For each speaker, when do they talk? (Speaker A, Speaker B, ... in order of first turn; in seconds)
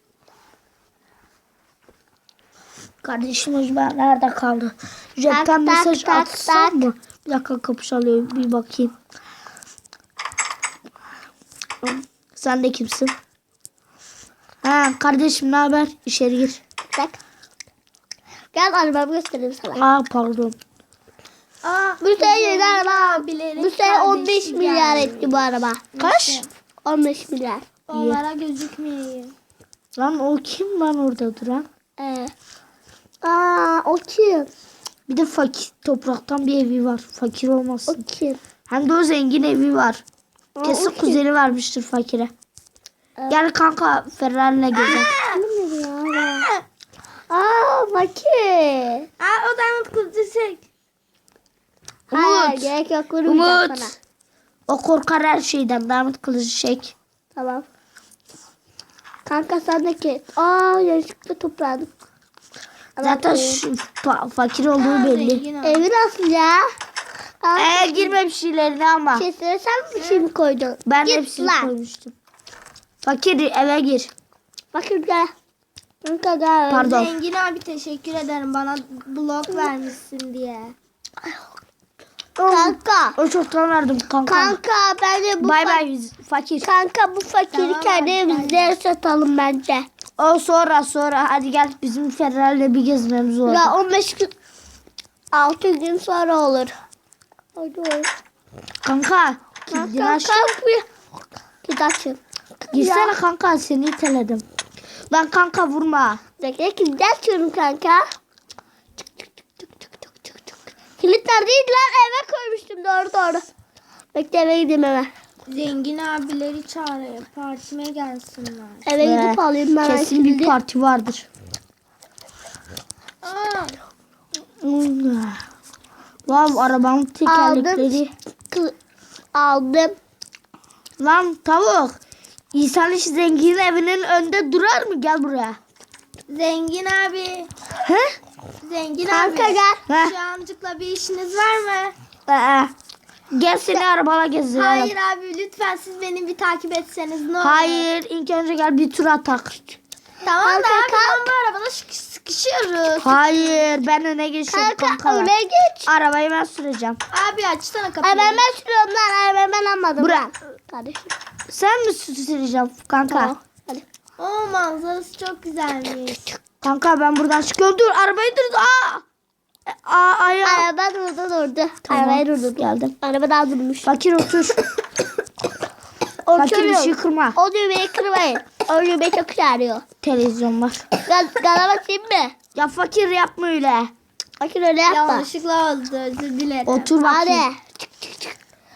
Speaker A: 3.0-8.9, 11.8-13.1, 14.6-16.6, 19.7-20.6, 26.0-26.4, 27.9-28.2, 29.9-31.6, 35.1-38.0, 38.7-40.0, 40.6-42.3, 43.3-45.1, 52.1-52.7, 53.2-53.9, 54.7-56.9, 63.0-65.4, 67.5-69.3, 70.8-72.1, 73.0-74.1, 76.7-77.1, 82.5-84.6, 85.4-86.7, 90.2-93.7, 98.8-100.5, 102.7-104.4, 105.1-106.2, 119.0-121.3, 124.6-125.4, 126.2-128.1, 131.0-131.9, 132.5-135.6, 137.8-138.1, 139.9-140.1, 143.3-144.9, 147.4-149.8, 153.0-155.3, 155.8-157.0, 160.0-160.2, 161.5-163.3, 166.6-169.0, 169.7-170.7, 171.8-172.9, 173.8-174.6, 176.3-177.4, 180.0-180.9, 182.5-183.9, 186.7-187.4
Speaker B: 5.3-6.9, 16.9-17.2, 18.5-19.8, 22.0-25.8, 26.8-27.6, 32.0-32.3, 33.2-34.5, 37.9-38.4, 40.5-41.2, 44.8-46.5, 47.3-49.1, 52.1-53.9, 57.3-57.6, 59.2-61.9, 63.0-63.6, 65.6-66.6, 67.4-68.2, 69.1-71.7, 74.7-75.3, 76.0-76.9, 82.4-83.2, 84.2-85.8, 86.6-89.9, 93.5-94.3, 95.3-96.7, 97.5-98.1, 99.7-100.8, 101.6-103.2, 106.4-108.0, 109.2-110.4, 111.0-113.5, 114.1-115.1, 118.8-120.5, 127.2-128.7, 129.3-129.9, 139.1-139.8, 142.3-142.7, 150.4-151.3, 154.5-155.9, 158.0-161.1, 163.1-163.8, 170.4-173.9, 176.2-179.8, 181.0-182.3, 184.4-185.2, 187.0-188.3
Speaker C: 21.6-26.5, 27.9-29.3, 44.7-45.4, 46.3-46.6, 49.2-50.6, 64.8-65.9, 70.0-70.2, 76.8-80.7, 87.5-88.7, 115.5-118.8, 123.2-123.8, 136.3-137.5, 138.6-141.9, 144.5-147.9, 150.2-153.7, 157.1-158.4, 164.2-166.2, 184.9-186.9